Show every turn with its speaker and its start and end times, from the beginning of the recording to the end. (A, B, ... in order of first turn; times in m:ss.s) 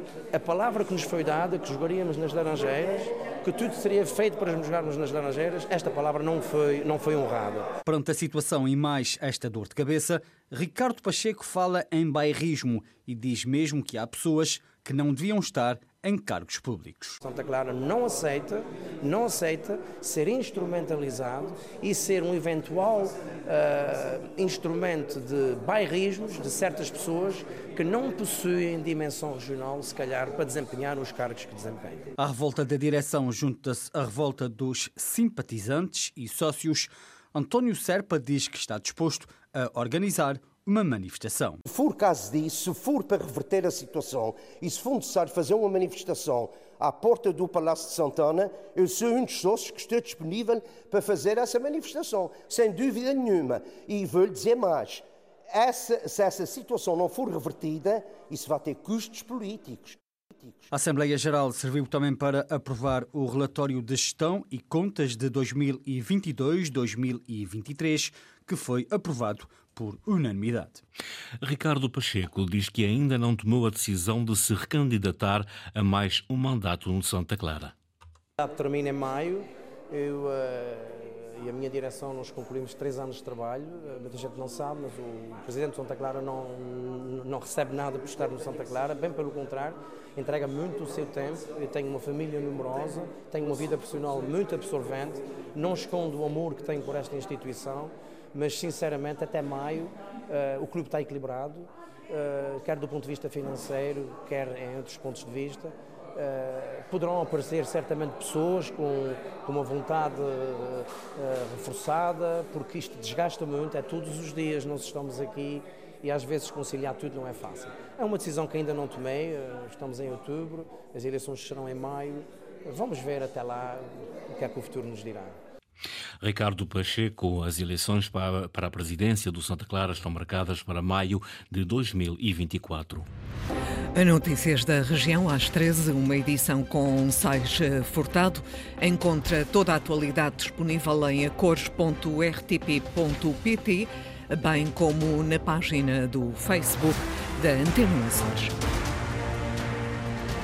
0:00.3-0:07.7 A
0:07.9-0:17.2 B
0:17.2-0:32.1 A
0:32.2-0:41.6 B
0:41.6-1:00.6 C
1:00.7-1:10.8 B
1:11.4-1:17.7 D
1:18.4-2:05.4 A
2:06.2-2:13.1 D
2:14.0-2:28.6 E